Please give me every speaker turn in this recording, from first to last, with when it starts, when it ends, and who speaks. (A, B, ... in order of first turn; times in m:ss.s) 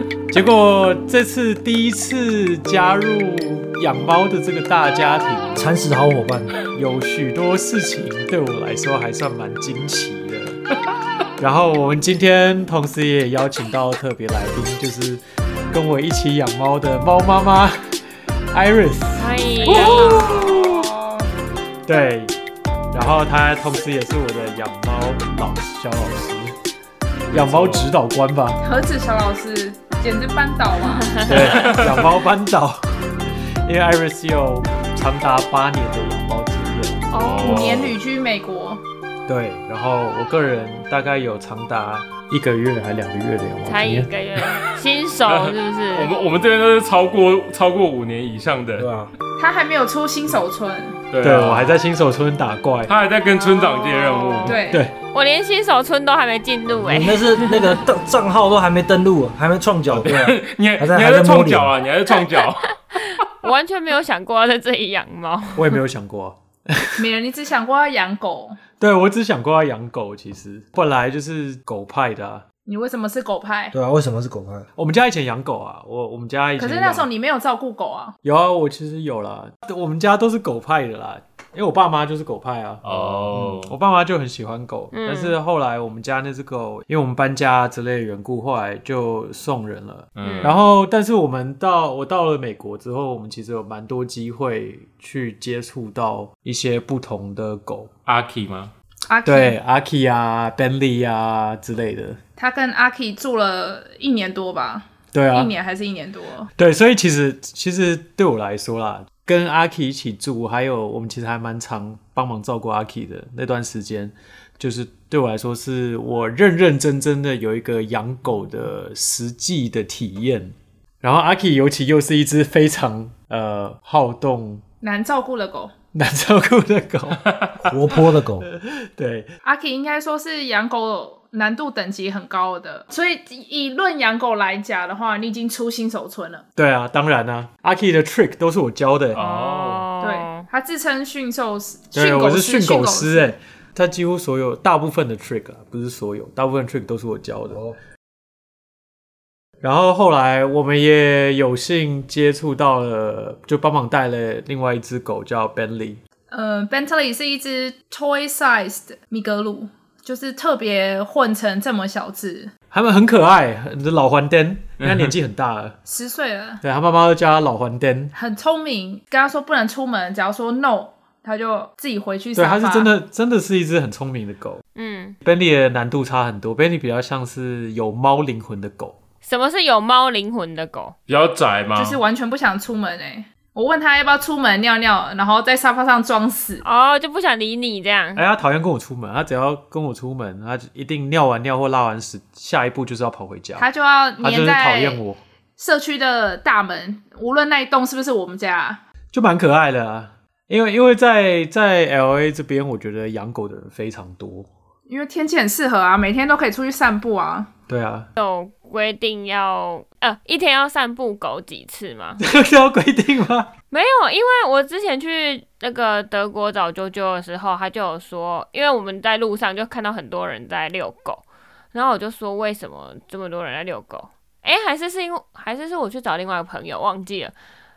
0:00.3-0:05.7 A
0:05.6-0:06.6 B
0:06.7-0:10.6 A
0:11.4-0:18.0 A
0:18.5-0:20.9 A
0:19.2-0:20.2 C
0:19.7-0:21.3 D
0:21.9-0:22.4 A
0:22.9-0:26.6 A
0:27.3-0:27.9 E
0:27.3-0:28.6 A
0:28.6-0:31.7 D
0:31.1-0:31.7 C
0:31.2-0:33.1 A
0:31.6-0:32.0 E
0:33.6-0:37.1 A
0:37.1-0:37.8 C
0:37.2-0:38.0 E
0:37.4-0:38.8 D
0:39.3-0:44.1 A
0:43.6-0:46.1 C
0:45.3-0:48.9 E
0:48.8-0:49.1 B
0:49.4-0:51.0 D
0:51.1-0:51.8 E
0:51.2-0:52.9 A
0:52.9-0:54.6 E
0:53.3-0:54.6 C
0:54.5-0:54.8 D
0:54.7-0:54.9 A
0:55.1-0:57.8 C
0:56.7-1:01.7 B
0:59.9-1:02.8 E
1:03.4-1:05.8 C
1:05.6-1:07.1 A
1:07.0-1:08.6 D
1:08.7-1:12.4 A
1:12.7-1:13.8 D
1:13.7-1:14.7 B
1:14.8-1:17.1 A
1:16.6-1:18.2 D
1:18.2-1:37.9 A
1:22.8-1:23.7 E
1:24.9-1:25.4 C
1:30.2-1:30.6 E
1:30.2-1:30.6 C
1:38.1-1:38.7 E
1:39.1-1:39.6 D
1:39.3-1:42.2 A
1:42.4-1:46.5 D
1:45.1-1:45.5 A
1:46.6-2:04.6 A
2:04.8-2:05.8 D
2:05.9-2:07.2 A
2:07.3-2:07.6 E
2:07.6-2:08.5 B
2:08.4-2:09.3 A
2:09.4-2:16.4 D
2:16.6-2:19.2 A
2:19.2-2:19.9 E
2:19.2-2:20.5 C
2:20.0-2:23.3 D
2:21.9-2:27.6 A
2:29.6-2:36.0 A
2:36.3-2:42.5 D
2:42.7-2:45.8 A
2:44.8-2:45.1 E
2:45.9-2:46.6 D
2:46.6-2:48.1 A
2:48.1-2:52.9 D
2:52.4-2:54.6 A
2:54.8-2:55.2 C
2:55.2-2:59.0 A
2:59.2-3:01.0 C
3:01.1-3:02.0 E
3:01.8-3:06.6 D
3:06.6-3:08.2 C
3:08.2-3:13.7 A
3:13.6-3:15.0 D
3:14.2-3:15.2 A
3:15.6-3:18.8 D
3:19.1-3:24.5 A
3:24.9-3:27.5 D
3:27.7-3:28.1 A
3:28.2-3:32.2 C
3:32.2-3:33.5 A
3:33.7-3:47.3 C